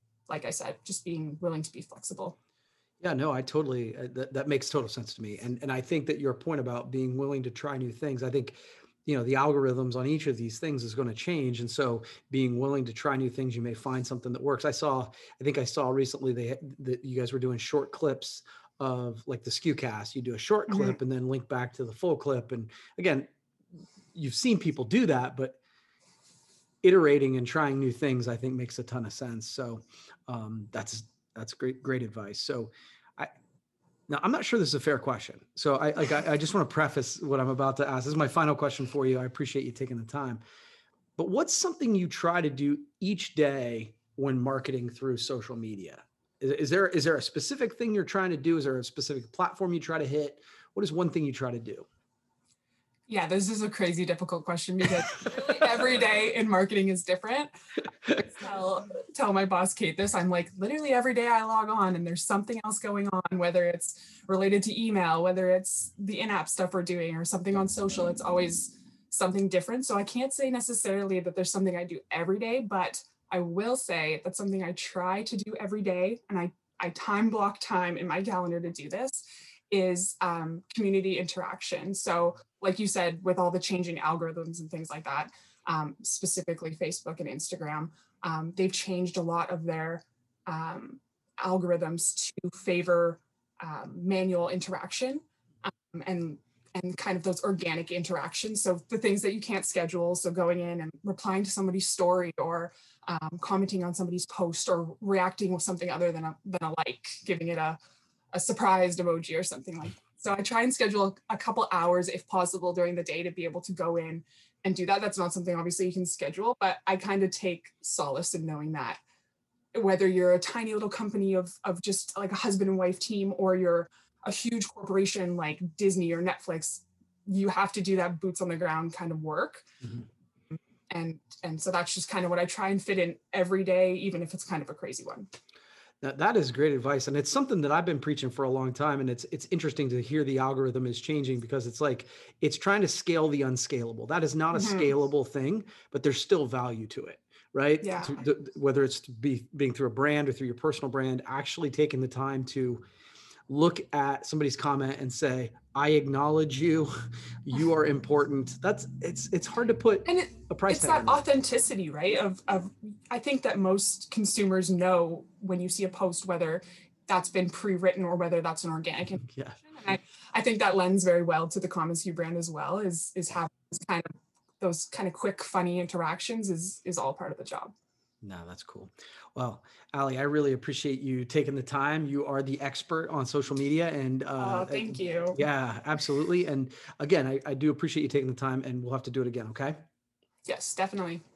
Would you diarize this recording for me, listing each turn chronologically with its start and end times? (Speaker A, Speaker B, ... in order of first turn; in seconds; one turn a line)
Speaker A: 0.3-2.4
Speaker B: 3.0-23.3
Speaker A: 20.7-21.0
Speaker B: 24.1-25.6
Speaker B: 26.8-33.3
Speaker B: 34.1-40.4
Speaker B: 41.2-51.9
Speaker A: 53.1-57.5
Speaker A: 58.1-107.8
Speaker A: 108.3-119.0
Speaker A: 119.7-129.7
Speaker A: 130.9-135.3
Speaker B: 136.0-152.8
Speaker A: 144.5-144.9
Speaker A: 147.8-148.2
Speaker B: 153.5-156.9
Speaker B: 157.4-161.2
Speaker A: 160.1-174.1
Speaker B: 169.3-169.6
Speaker A: 174.6-177.7
Speaker B: 178.2-189.8
Speaker A: 184.4-185.4
Speaker A: 190.5-191.2